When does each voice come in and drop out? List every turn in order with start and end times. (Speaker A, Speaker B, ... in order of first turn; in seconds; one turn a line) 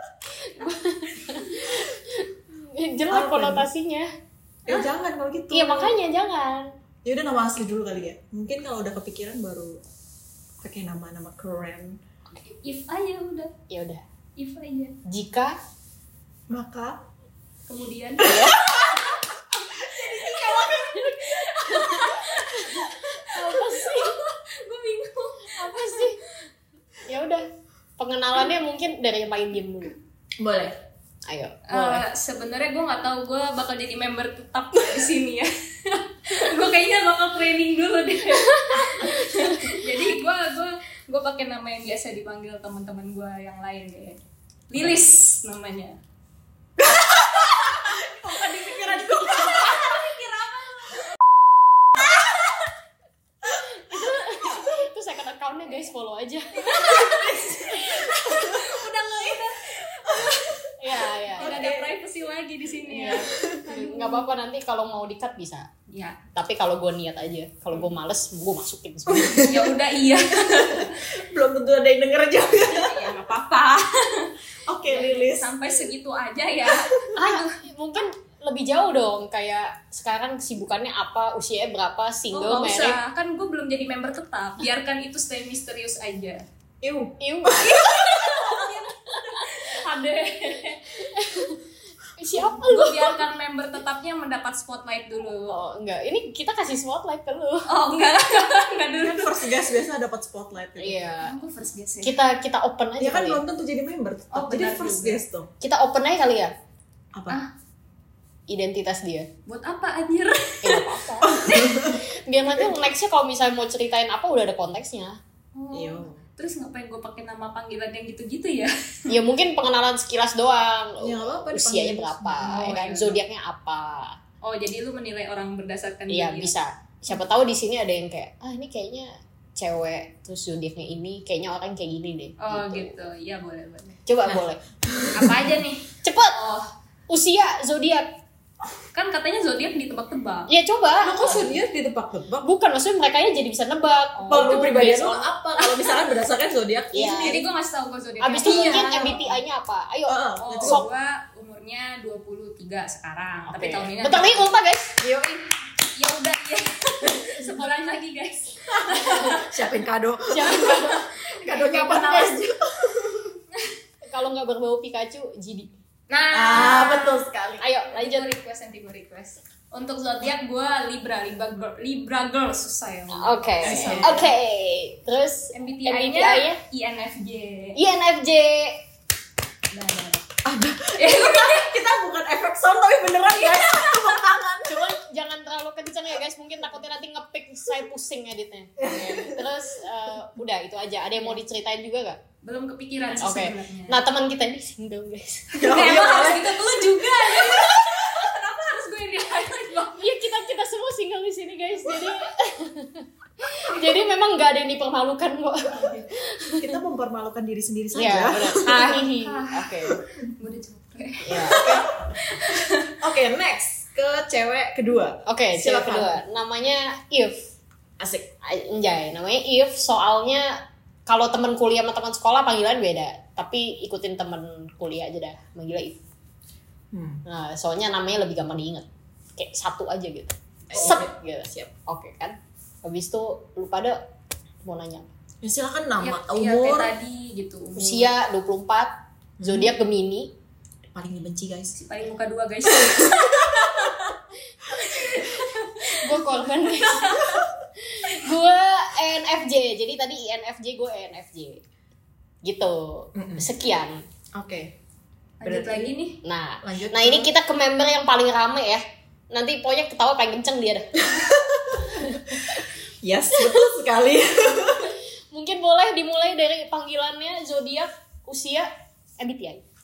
Speaker A: 0.4-4.1
Speaker B: 3.1-3.7
Speaker B: 4.7-5.9
Speaker A: 5.5-6.7
Speaker B: 7.0-9.8
Speaker B: 10.6-12.0
Speaker C: 12.6-13.5
Speaker A: 13.7-14.0
Speaker C: 14.4-14.9
Speaker A: 15.1-15.5
Speaker B: 16.5-17.0
Speaker C: 17.7-26.3
Speaker A: 18.2-18.8
Speaker B: 18.2-21.5
Speaker A: 21.6-24.2
Speaker A: 25.5-26.2
Speaker A: 27.1-27.4
Speaker A: 28.0-29.9
Speaker B: 30.4-30.8
Speaker A: 31.3-32.0
Speaker C: 31.7-44.2
Speaker C: 44.7-46.0
Speaker B: 46.8-50.2
Speaker C: 49.3-50.9
Speaker B: 51.9-52.4
Speaker A: 53.5-57.5
Speaker C: 56.6-60.6
Speaker B: 56.7-61.9
Speaker A: 60.8-61.6
Speaker C: 61.4-64.3
Speaker A: 62.9-65.7
Speaker B: 63.2-63.7
Speaker C: 65.9-66.2
Speaker A: 66.3-69.5
Speaker B: 69.1-69.7
Speaker C: 69.5-71.0
Speaker B: 70.3-73.1
Speaker C: 72.6-77.6
Speaker B: 74.7-75.7
Speaker B: 76.7-77.1
Speaker A: 77.2-83.0
Speaker C: 82.3-86.4
Speaker B: 86.8-88.6
Speaker A: 87.2-87.8
Speaker C: 87.7-91.4
Speaker A: 88.5-89.4
Speaker A: 91.0-91.6
Speaker A: 92.2-93.2
Speaker C: 92.3-95.6
Speaker A: 95.5-97.7
Speaker C: 97.7-99.5
Speaker B: 99.0-101.0
Speaker A: 100.8-101.3
Speaker C: 101.2-102.2
Speaker A: 102.0-103.4
Speaker B: 103.0-105.5
Speaker C: 104.3-105.2
Speaker A: 105.6-106.5
Speaker B: 107.1-107.4
Speaker A: 108.5-109.3
Speaker C: 109.5-111.8
Speaker A: 110.6-115.2
Speaker B: 111.2-112.0
Speaker C: 115.5-119.1
Speaker B: 115.7-116.2
Speaker A: 119.1-124.1
Speaker B: 121.0-122.6
Speaker C: 122.4-123.2
Speaker C: 124.4-126.5
Speaker A: 126.1-133.0
Speaker C: 132.4-134.0
Speaker A: 134.1-134.6
Speaker B: 134.2-135.5
Speaker C: 135.1-136.7
Speaker A: 136.0-136.4
Speaker A: 137.1-138.1
Speaker C: 138.9-140.5
Speaker A: 140.5-141.5
Speaker B: 141.0-142.5
Speaker A: 142.4-145.3
Speaker C: 144.2-144.5
Speaker B: 144.3-147.5
Speaker C: 145.6-146.1
Speaker A: 146.9-147.4
Speaker C: 147.2-149.4
Speaker A: 148.2-150.8
Speaker B: 148.3-149.2
Speaker B: 150.1-150.8
Speaker C: 150.4-159.6
Speaker A: 153.5-155.1
Speaker B: 158.9-163.4
Speaker A: 160.3-161.0
Speaker C: 160.5-162.2
Speaker A: 161.6-162.4
Speaker A: 164.0-165.7
Speaker C: 166.1-167.3
Speaker B: 166.3-167.6
Speaker A: 166.6-166.9
Speaker A: 167.6-168.3
Speaker C: 167.8-174.3
Speaker A: 173.1-176.6
Speaker B: 173.6-174.3
Speaker C: 175.5-177.8
Speaker A: 177.8-178.8
Speaker C: 179.7-180.2
Speaker B: 180.4-184.9
Speaker C: 180.9-181.7
Speaker C: 183.3-184.2
Speaker A: 184.7-192.2
Speaker B: 188.8-189.4
Speaker C: 192.4-194.0
Speaker A: 193.2-196.1
Speaker B: 195.5-197.9
Speaker C: 195.6-200.1
Speaker A: 200.0-206.8
Speaker B: 206.6-208.9
Speaker A: 207.9-210.0
Speaker C: 208.5-209.8
Speaker C: 210.3-212.9
Speaker A: 211.2-211.8
Speaker B: 211.4-212.1
Speaker B: 213.0-216.2
Speaker A: 215.2-217.5
Speaker B: 218.0-218.3
Speaker A: 218.4-220.5
Speaker A: 221.1-226.0
Speaker B: 226.9-227.2
Speaker A: 227.2-228.8
Speaker A: 229.4-234.0
Speaker B: 230.7-231.7
Speaker A: 234.6-235.1
Speaker B: 235.4-236.9
Speaker C: 236.0-238.1
Speaker A: 237.8-238.9
Speaker B: 239.4-239.7
Speaker A: 239.4-240.3
Speaker B: 240.9-241.8
Speaker C: 241.7-244.0
Speaker B: 242.7-244.2
Speaker C: 244.7-246.1
Speaker A: 245.8-251.6
Speaker C: 246.8-247.4
Speaker A: 252.4-254.0
Speaker B: 253.1-253.4
Speaker B: 254.3-254.7
Speaker C: 255.4-256.2
Speaker B: 255.4-255.9
Speaker A: 256.2-261.3
Speaker B: 256.6-257.3
Speaker B: 261.1-264.9
Speaker A: 261.9-262.4
Speaker A: 265.3-269.6